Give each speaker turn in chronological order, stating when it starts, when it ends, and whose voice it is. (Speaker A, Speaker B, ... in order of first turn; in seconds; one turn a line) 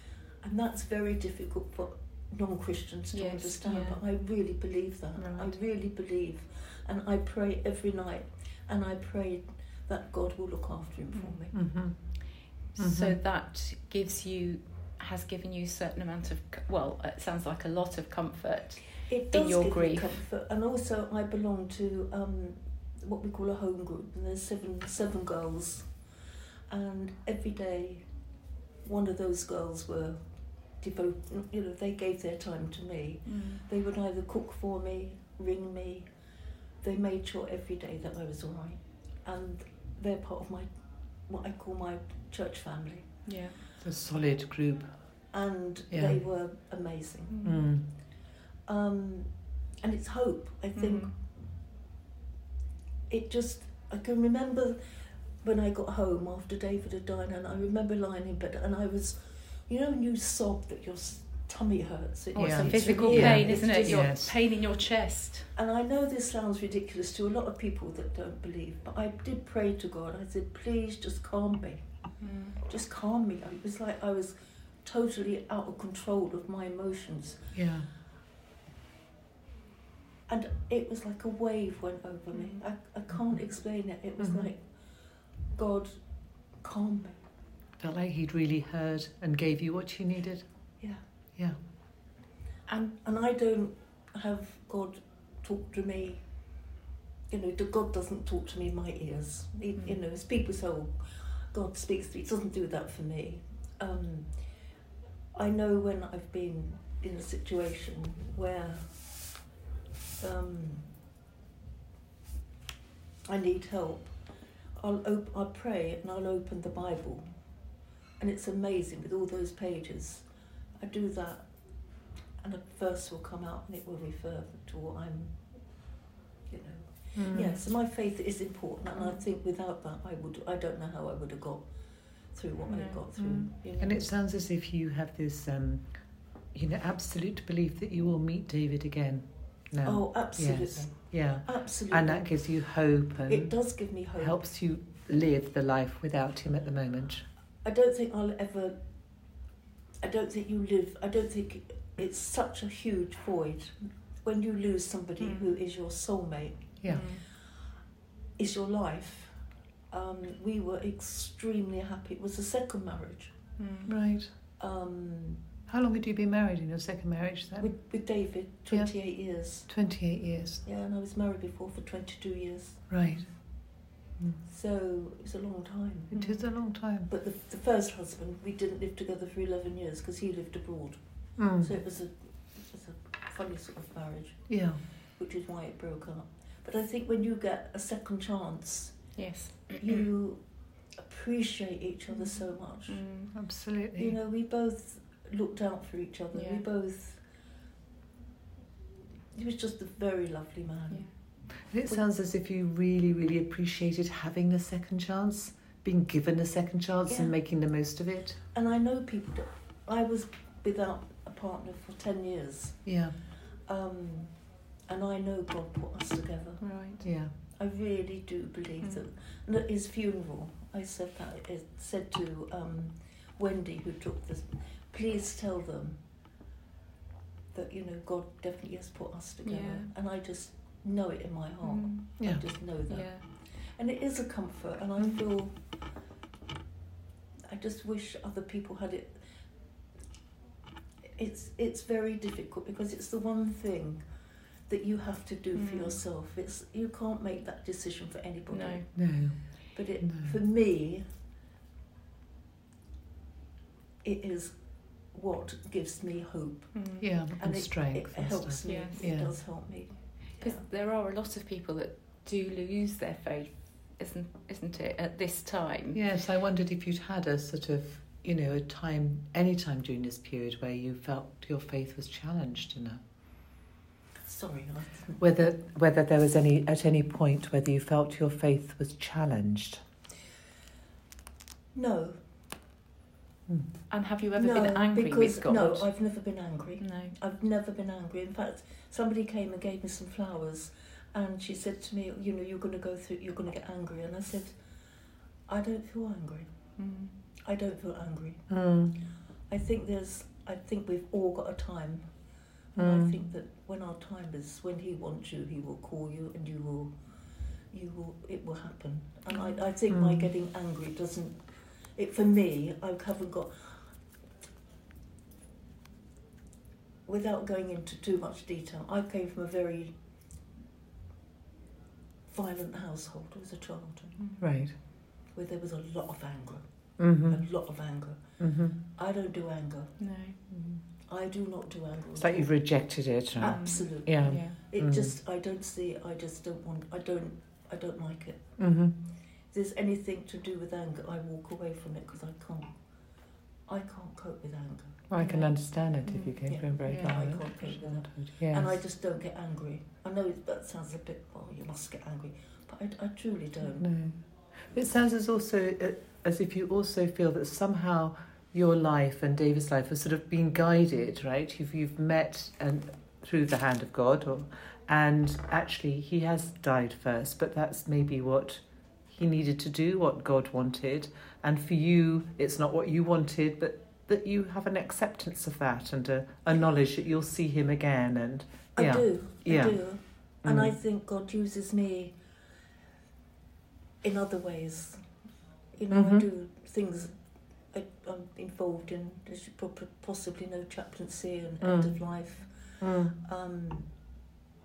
Speaker A: 0.4-11.6
Speaker B: 3.1-4.0
Speaker B: 5.2-5.5
Speaker C: 11.5-11.9
Speaker B: 12.8-20.2
Speaker C: 12.8-13.2
Speaker A: 19.1-25.9
Speaker A: 26.7-28.0
Speaker A: 28.8-30.2
Speaker A: 30.8-36.1
Speaker B: 33.3-33.6
Speaker A: 36.8-40.7
Speaker A: 41.3-43.1
Speaker B: 43.3-43.6
Speaker C: 43.8-44.9
Speaker A: 45.3-47.4
Speaker C: 45.9-46.2
Speaker B: 47.3-47.6
Speaker C: 47.4-47.8
Speaker A: 48.7-49.3
Speaker A: 49.8-51.1
Speaker B: 50.8-51.1
Speaker A: 53.1-54.8
Speaker A: 55.4-64.2
Speaker C: 62.4-64.3
Speaker B: 62.4-65.5
Speaker A: 65.6-71.8
Speaker B: 72.2-72.6
Speaker A: 72.7-77.5
Speaker C: 77.5-77.9
Speaker A: 80.3-84.6
Speaker B: 82.3-82.6
Speaker C: 84.2-84.5
Speaker A: 85.5-86.0
Speaker A: 86.6-87.2
Speaker C: 87.8-90.5
Speaker A: 92.8-96.2
Speaker A: 97.3-101.0
Speaker A: 101.5-104.3
Speaker A: 105.3-108.9
Speaker A: 110.2-110.9
Speaker A: 113.3-114.1
Speaker A: 114.8-117.3
Speaker A: 118.2-120.2
Speaker A: 120.8-121.5
Speaker A: 122.4-125.4
Speaker A: 126.5-131.6
Speaker C: 127.2-127.6
Speaker B: 129.0-129.2
Speaker A: 132.3-134.0
Speaker B: 132.7-133.0
Speaker C: 133.2-135.9
Speaker C: 136.5-143.5
Speaker A: 139.8-140.9
Speaker A: 141.4-142.3
Speaker A: 143.3-144.4
Speaker C: 144.2-147.2
Speaker A: 147.6-148.8
Speaker A: 150.0-157.0
Speaker B: 155.2-155.5
Speaker C: 156.8-157.1
Speaker B: 156.9-157.2
Speaker A: 158.4-159.3
Speaker A: 159.9-163.3
Speaker B: 163.6-163.9
Speaker C: 163.9-164.3
Speaker A: 164.6-165.4
Speaker C: 165.7-167.7
Speaker A: 167.6-169.7
Speaker C: 169.7-170.6
Speaker A: 170.6-172.9
Speaker C: 172.9-173.3
Speaker A: 174.5-176.2
Speaker C: 176.1-177.1
Speaker B: 176.1-176.5
Speaker A: 177.1-181.0
Speaker C: 181.4-181.7
Speaker A: 181.6-184.5
Speaker C: 184.5-184.8
Speaker A: 185.2-189.0
Speaker B: 189.2-190.0
Speaker A: 189.8-190.4
Speaker A: 191.0-193.0
Speaker B: 192.9-193.3
Speaker C: 193.3-194.2
Speaker A: 194.0-197.2
Speaker B: 196.3-196.6
Speaker A: 199.3-201.1
Speaker C: 201.7-208.4
Speaker A: 207.1-207.3
Speaker A: 208.5-212.8
Speaker C: 212.9-213.1
Speaker A: 213.7-214.3
Speaker A: 214.9-216.6
Speaker B: 216.6-217.0
Speaker C: 217.0-217.3
Speaker A: 217.6-226.0
Speaker A: 227.5-233.1
Speaker B: 229.4-229.9
Speaker B: 231.6-232.1
Speaker B: 232.9-233.2
Speaker A: 233.8-235.5
Speaker A: 237.5-239.2
Speaker A: 241.2-244.0
Speaker A: 244.7-248.9
Speaker B: 245.6-246.0
Speaker B: 248.5-248.8
Speaker C: 249.0-249.3
Speaker A: 249.8-251.1
Speaker C: 250.0-250.4
Speaker A: 254.0-254.6
Speaker A: 255.1-256.8
Speaker B: 256.8-257.1
Speaker C: 257.0-259.3
Speaker A: 257.4-260.6
Speaker B: 258.6-259.1
Speaker B: 260.4-266.0
Speaker C: 265.9-273.0
Speaker A: 274.3-275.2
Speaker C: 275.2-279.8
Speaker A: 281.7-282.2
Speaker B: 283.9-285.9
Speaker A: 284.4-294.6
Speaker B: 286.8-287.1
Speaker A: 295.5-296.5
Speaker B: 296.8-297.1
Speaker A: 297.4-298.4
Speaker C: 298.5-299.0
Speaker A: 299.5-302.0
Speaker A: 302.8-306.9
Speaker C: 302.8-303.1
Speaker A: 307.7-311.4
Speaker B: 309.3-309.6
Speaker C: 309.9-310.3
Speaker A: 312.0-313.9
Speaker A: 317.1-319.9
Speaker A: 322.3-324.2
Speaker B: 324.2-324.5
Speaker C: 324.4-324.7
Speaker A: 325.4-326.6
Speaker C: 327.0-327.4
Speaker A: 327.3-328.2
Speaker C: 328.4-328.8
Speaker A: 328.9-329.9
Speaker B: 330.0-330.4
Speaker A: 331.1-332.5
Speaker C: 332.2-335.1
Speaker A: 333.4-338.6
Speaker B: 333.4-334.6
Speaker C: 338.6-338.9
Speaker A: 339.5-342.7
Speaker A: 343.7-345.1
Speaker C: 345.1-348.8
Speaker B: 345.2-345.5
Speaker B: 346.0-346.4
Speaker A: 346.5-353.9
Speaker B: 346.9-347.1
Speaker C: 353.8-379.8
Speaker A: 378.8-382.1
Speaker C: 380.4-380.8
Speaker A: 384.0-385.0
Speaker A: 385.8-387.1
Speaker C: 385.9-386.3
Speaker A: 387.7-392.5
Speaker C: 391.6-391.9
Speaker C: 392.8-393.1
Speaker A: 393.1-393.9